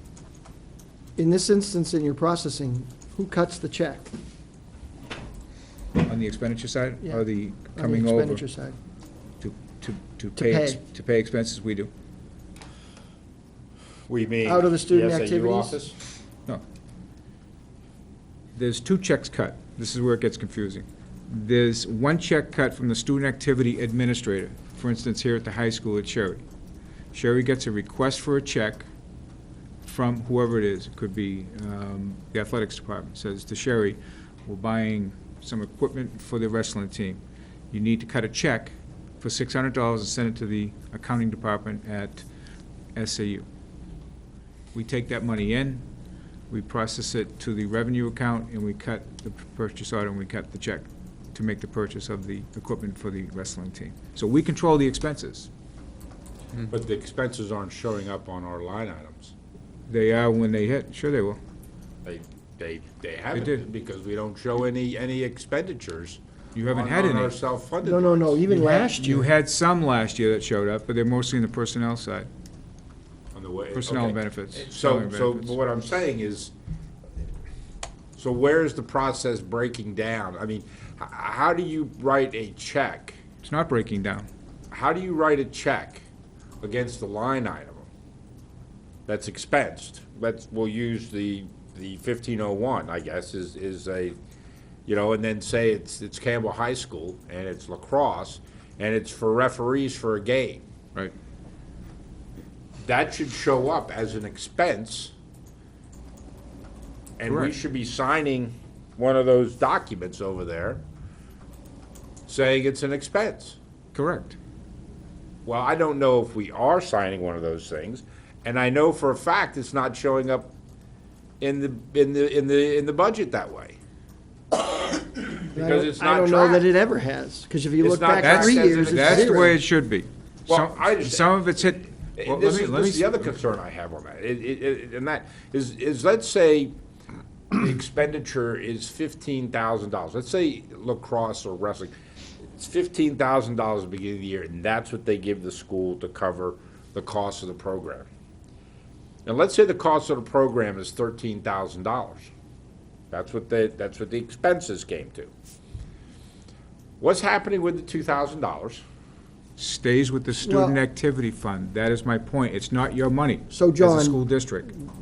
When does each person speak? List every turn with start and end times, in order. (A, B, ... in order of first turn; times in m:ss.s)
0:01.2-0:04.1 A
0:06.0-0:08.4 B
0:07.0-0:08.7 A
0:09.4-0:11.9 B
0:10.3-0:10.8 A
0:14.1-0:15.9 C
0:14.4-0:15.8 A
0:18.6-0:26.4 B
0:27.1-0:28.9 B
0:29.8-0:37.2 B
0:37.7-0:42.3 B
0:43.0-0:43.4 B
0:44.7-0:45.8 B
0:46.5-0:55.5 B
0:56.7-0:59.3 C
0:59.9-1:01.4 B
1:02.0-1:08.4 C
1:03.3-1:03.6 B
1:06.6-1:07.3 B
1:07.8-1:09.3 A
1:08.5-1:12.3 B
1:13.3-1:16.5 C
1:13.7-1:15.6 B
1:18.2-1:23.2 C
1:23.4-1:24.3 B
1:24.7-1:26.0 C
1:26.6-1:27.9 C
1:29.1-1:34.2 C
1:34.9-1:40.6 C
1:42.8-1:45.1 C
1:47.2-1:50.8 C
1:47.3-1:47.5 B
1:52.3-1:53.6 C
1:54.0-1:54.4 B
1:55.4-2:00.5 C
2:01.4-2:03.8 C
2:04.8-2:06.7 C
2:05.6-2:09.6 A
2:07.8-2:09.5 C
2:08.2-2:13.3 B
2:10.5-2:11.3 C
2:12.2-2:16.8 C
2:17.5-2:21.9 C
2:22.5-2:28.1 C
2:29.2-2:32.3 C
2:33.1-2:35.3 C
2:37.0-2:38.8 C
2:39.6-2:44.7 B
2:40.4-2:40.8 A
2:43.5-2:44.2 A